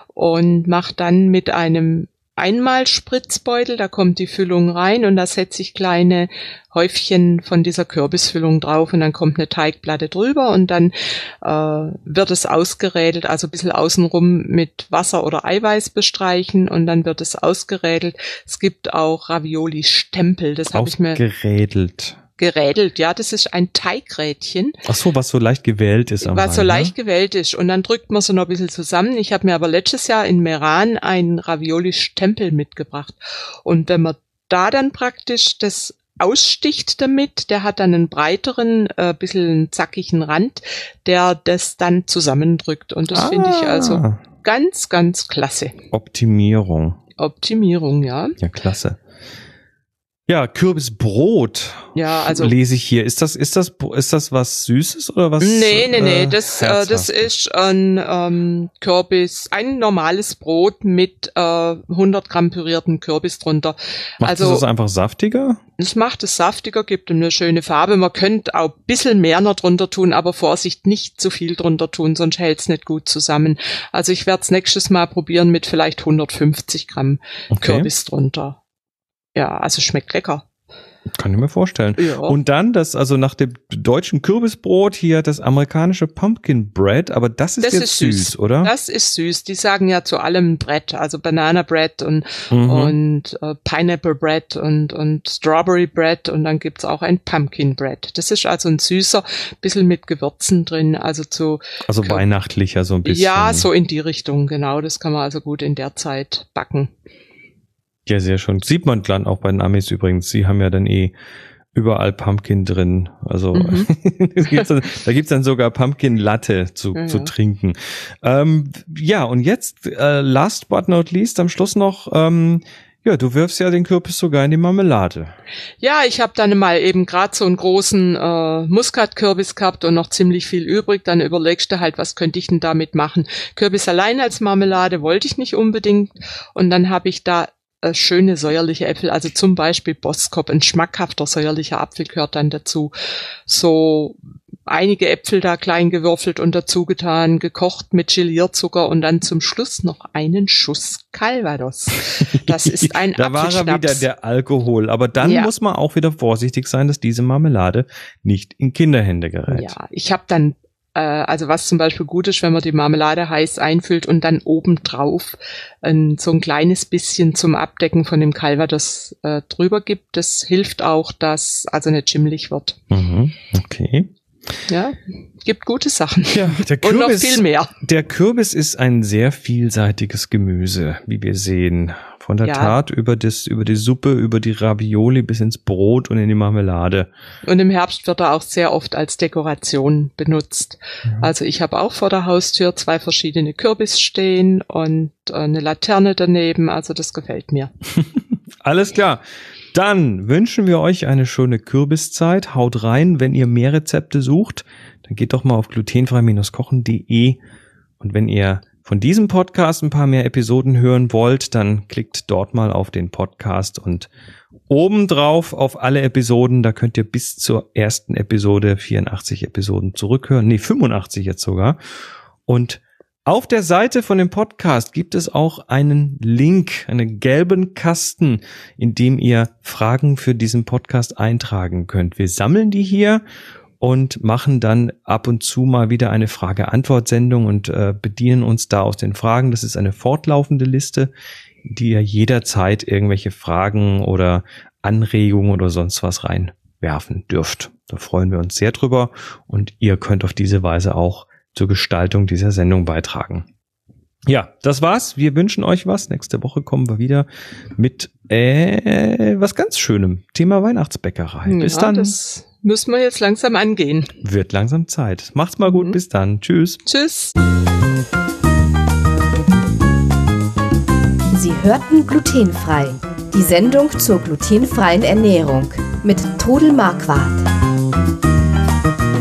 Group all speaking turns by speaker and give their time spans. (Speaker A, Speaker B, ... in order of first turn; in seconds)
Speaker A: 0.1-21.2, 22.4-24.8, 26.2-45.7, 47.2-48.4, 51.9-52.5, 55.4-64.7, 65.8-78.6, 79.3-80.4, 82.0-82.4, 87.6-102.2, 103.0-106.9, 113.5-113.9, 116.9-117.3, 125.8-142.9, 143.5-154.1, 155.2-155.5, 159.5-172.8, 174.7-177.7, 182.4-182.8, 187.4-197.7, 261.4-264.1, 265.6-266.0, 266.8-267.3
Speaker B: 20.7-22.2, 24.9-26.9, 43.1-44.2, 45.9-47.0, 48.4-49.0, 50.3-57.3, 64.2-65.6, 77.5-77.9, 81.2-88.7, 92.5-93.0, 101.9-103.7, 108.0-111.1, 111.7-125.3, 152.4-159.7, 172.9-174.1, 176.3-187.1, 198.0-207.4, 208.0-214.1, 214.7-221.8, 222.5-233.2, 233.8-241.1, 241.7-253.4, 254.3-262.1, 264.2-266.8
Speaker C: 271.3-277.4